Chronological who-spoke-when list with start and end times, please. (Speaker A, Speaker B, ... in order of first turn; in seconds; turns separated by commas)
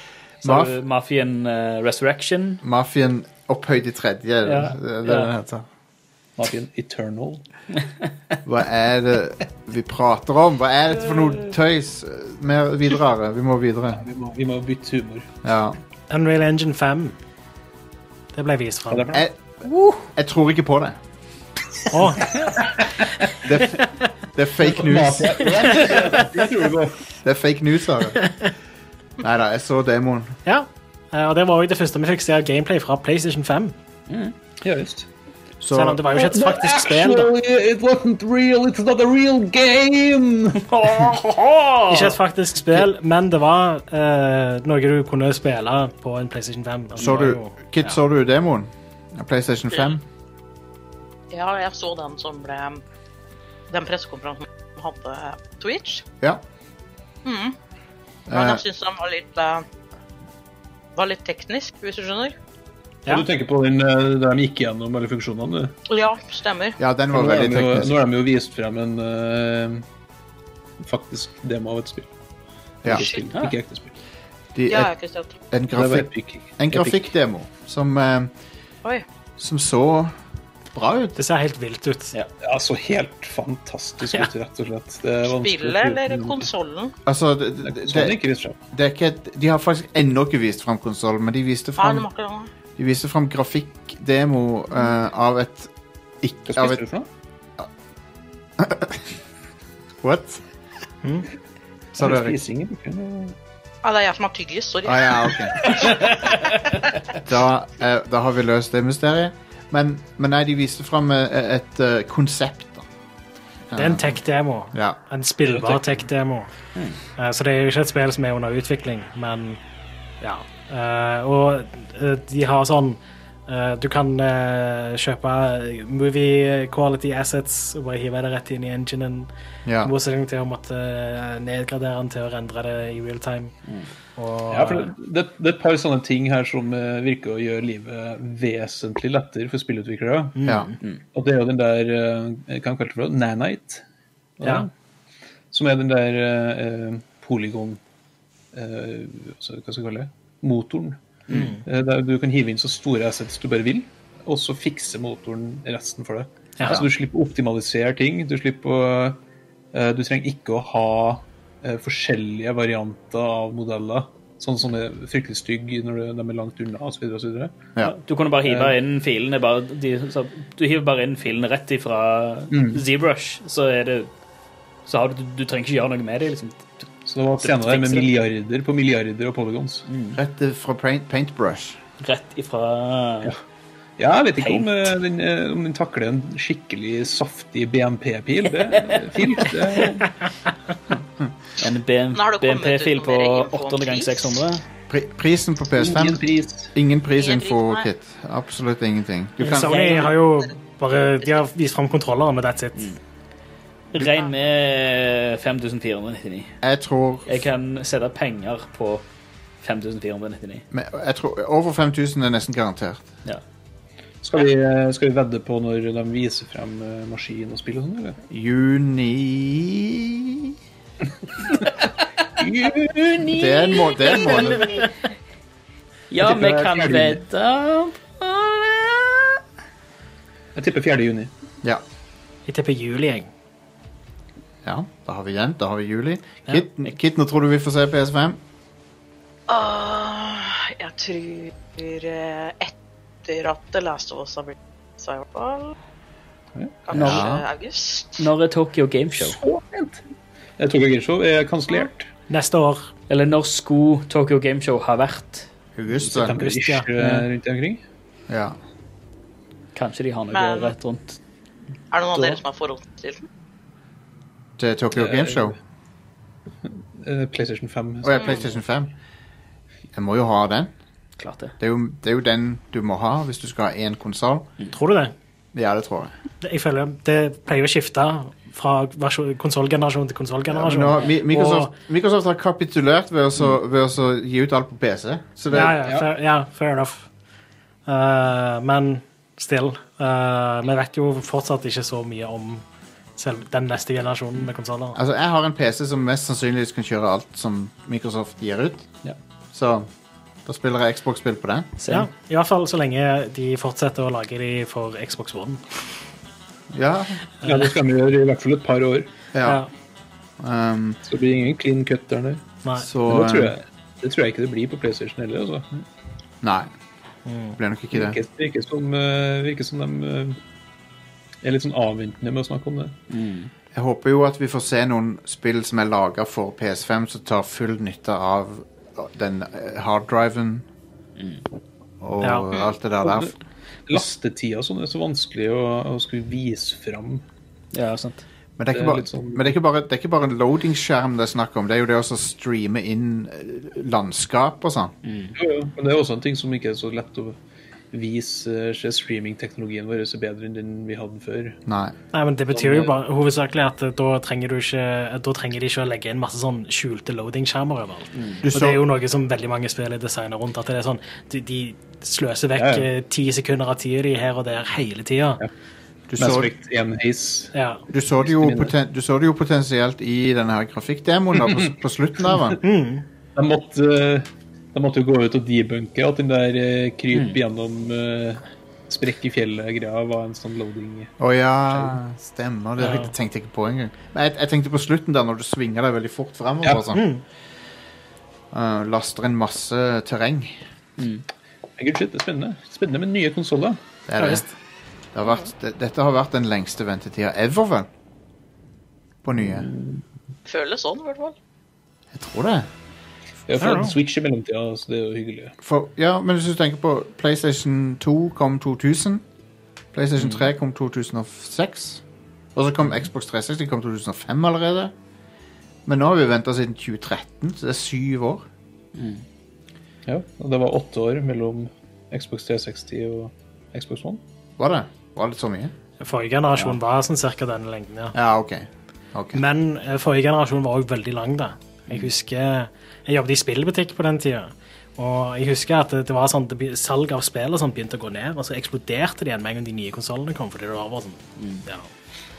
Speaker A: 0.4-2.6, Speaker B: 0.4-0.8, Speaker B: 2.6-5.7, Speaker A: 4.4-5.3, Speaker C: 6.4-7.4, Speaker B: 8.4-14.0, Speaker C: 13.9-15.3, Speaker B: 15.4-15.8, Speaker D: 16.1-17.1, Speaker D: 18.3-19.2, Speaker C: 18.9-19.2, Speaker B: 19.1-21.0, Speaker D: 21.9-22.4, Speaker C: 22.6-23.0, Speaker B: 23.4-25.6, Speaker C: 24.6-27.0, Speaker D: 25.7-26.1, Speaker B: 27.2-28.2, Speaker B: 29.2-30.4, Speaker D: 30.5-33.8, Speaker A: 34.1-34.3, Speaker C: 34.6-35.1, Speaker B: 35.6-36.0, Speaker D: 35.7-37.3, Speaker C: 36.1-41.1, Speaker A: 40.6-42.2, Speaker D: 41.9-48.0, Speaker B: 47.0-50.0, Speaker E: 51.3-52.8, Speaker E: 53.7-56.0, Speaker E: 57.2-57.6, Speaker B: 58.3-58.6, Speaker E: 58.3-59.6, Speaker E: 61.0-62.4, Speaker C: 63.1-65.8, Speaker E: 65.9-66.8, Speaker B: 66.8-67.9, Speaker C: 67.1-69.8, Speaker C: 70.8-72.1, Speaker C: 72.8-73.9, Speaker E: 73.0-73.2, Speaker B: 74.5-74.9, Speaker E: 74.7-75.3, Speaker B: 75.5-78.3, Speaker C: 75.7-77.1, Speaker B: 79.4-80.1, Speaker B: 80.7-81.2, Speaker D: 81.2-82.1, Speaker C: 82.4-86.5, Speaker E: 85.3-86.9, Speaker B: 87.1-88.2, Speaker C: 87.7-88.6, Speaker B: 88.7-92.1, Speaker E: 91.8-92.5, Speaker B: 92.8-95.7, Speaker B: 96.2-96.8, Speaker C: 96.5-97.1, Speaker B: 98.6-99.0, Speaker B: 100.0-100.4, Speaker D: 101.0-101.3, Speaker C: 102.0-103.4, Speaker B: 102.0-102.4, Speaker E: 103.8-106.0, Speaker B: 104.8-105.7, Speaker C: 105.6-106.3, Speaker B: 107.2-112.9, Speaker B: 113.7-114.2, Speaker D: 113.7-116.5, Speaker B: 114.7-115.0, Speaker C: 115.5-116.0, Speaker D: 117.2-119.6, Speaker D: 120.2-129.3, Speaker B: 129.7-129.9, Speaker D: 129.8-133.5, Speaker D: 134.2-134.9, Speaker C: 134.5-140.4, Speaker D: 140.4-140.8, Speaker C: 141.1-143.8, Speaker C: 144.4-144.7, Speaker C: 145.5-147.8, Speaker C: 148.5-151.0, Speaker A: 151.3-151.6, Speaker D: 151.3-151.6, Speaker C: 151.6-159.2, Speaker D: 156.6-156.9, Speaker C: 159.7-167.6, Speaker A: 167.8-174.1, Speaker C: 168.5-168.7, Speaker C: 172.5-172.8, Speaker A: 174.9-178.1, Speaker C: 177.1-179.9, Speaker A: 179.9-180.2, Speaker B: 180.2-181.8, Speaker A: 182.0-183.3, Speaker C: 184.0-190.1, Speaker A: 184.4-184.9, Speaker A: 188.5-190.0, Speaker A: 191.6-194.6, Speaker E: 192.2-194.4, Speaker B: 194.9-196.2, Speaker C: 195.8-196.7, Speaker B: 196.8-200.0, Speaker E: 197.2-197.9, Speaker D: 199.4-202.9, Speaker A: 199.6-200.1, Speaker A: 203.9-206.5, Speaker E: 204.0-204.3, Speaker B: 206.6-207.4, Speaker A: 207.3-209.0, Speaker A: 209.6-210.7, Speaker B: 210.7-213.1, Speaker C: 214.2-218.2, Speaker B: 218.3-220.6, Speaker C: 222.4-223.4, Speaker A: 223.2-224.6, Speaker B: 223.3-224.8, Speaker A: 226.1-229.4, Speaker C: 226.2-227.2, Speaker C: 230.6-231.3, Speaker D: 232.5-233.3, Speaker B: 234.6-238.4, Speaker E: 239.5-245.8, Speaker C: 246.6-246.8, Speaker E: 246.9-248.3, Speaker A: 246.9-247.3, Speaker B: 246.9-247.4, Speaker A: 248.2-249.4, Speaker C: 249.2-250.0, Speaker C: 250.6-252.1, Speaker D: 252.3-252.9, Speaker A: 253.1-255.5, Speaker B: 255.8-256.4, Speaker C: 256.1-257.8, Speaker D: 256.4-256.9, Speaker B: 258.3-258.6, Speaker A: 259.8-261.2, Speaker E: 260.3-260.7, Speaker E: 261.9-263.2, Speaker A: 262.1-262.4, Speaker B: 264.6-265.6, Speaker C: 265.0-265.6, Speaker C: 266.7-268.5, Speaker B: 268.0-268.9, Speaker B: 269.9-270.7, Speaker A: 271.2-271.5, Speaker B: 271.6-274.5, Speaker D: 274.7-275.1, Speaker B: 275.5-276.1, Speaker D: 276.4-281.7, Speaker B: 280.5-285.8, Speaker C: 285.5-286.1, Speaker D: 285.5-287.1, Speaker D: 287.9-292.6, Speaker D: 293.2-295.0, Speaker B: 294.9-298.9, Speaker B: 299.5-299.9, Speaker B: 300.4-301.7, Speaker A: 301.8-302.1, Speaker D: 301.9-305.6, Speaker B: 306.7-307.2, Speaker C: 307.4-309.1, Speaker B: 309.3-309.6, Speaker B: 310.4-311.0, Speaker C: 311.1-312.4, Speaker B: 312.8-313.6, Speaker C: 313.1-315.8, Speaker B: 316.4-316.7, Speaker D: 317.3-317.6, Speaker B: 317.6-318.2, Speaker C: 317.9-320.4, Speaker C: 321.4-323.0, Speaker A: 323.1-323.5, Speaker B: 323.7-330.7, Speaker A: 331.2-331.4, Speaker B: 332.0-333.3, Speaker D: 332.2-332.5, Speaker C: 333.0-333.3, Speaker C: 333.9-337.2, Speaker A: 337.7-338.2, Speaker B: 338.6-344.9, Speaker C: 338.7-339.5, Speaker A: 345.0-345.4, Speaker C: 345.4-347.4, Speaker C: 347.9-351.6, Speaker B: 351.7-351.9, Speaker D: 352.1-365.4, Speaker C: 352.5-352.9, Speaker A: 358.1-358.4, Speaker B: 358.4-358.8, Speaker C: 362.6-362.9, Speaker B: 366.1-366.5, Speaker C: 366.2-367.6, Speaker D: 367.6-367.8, Speaker B: 367.9-372.6, Speaker C: 368.2-368.7, Speaker C: 371.4-371.7, Speaker D: 372.6-373.1, Speaker C: 373.4-381.1, Speaker A: 377.1-377.4, Speaker B: 381.2-387.1, Speaker D: 382.8-383.1, Speaker D: 386.9-387.2, Speaker B: 388.5-390.6, Speaker A: 391.0-391.2, Speaker C: 391.8-393.8, Speaker B: 394.1-394.4, Speaker D: 394.2-394.5, Speaker B: 395.1-397.9, Speaker B: 399.2-399.7, Speaker C: 399.5-400.0, Speaker E: 400.5-401.4, Speaker B: 402.1-402.7, Speaker C: 403.5-405.6, Speaker D: 403.6-403.9, Speaker B: 405.6-409.2, Speaker B: 409.9-412.0, Speaker B: 412.6-414.9, Speaker B: 415.9-418.5, Speaker A: 418.9-419.2, Speaker C: 420.1-424.2, Speaker B: 424.6-425.7, Speaker D: 426.0-428.1, Speaker B: 428.1-429.4, Speaker D: 429.4-441.9, Speaker A: 441.4-441.6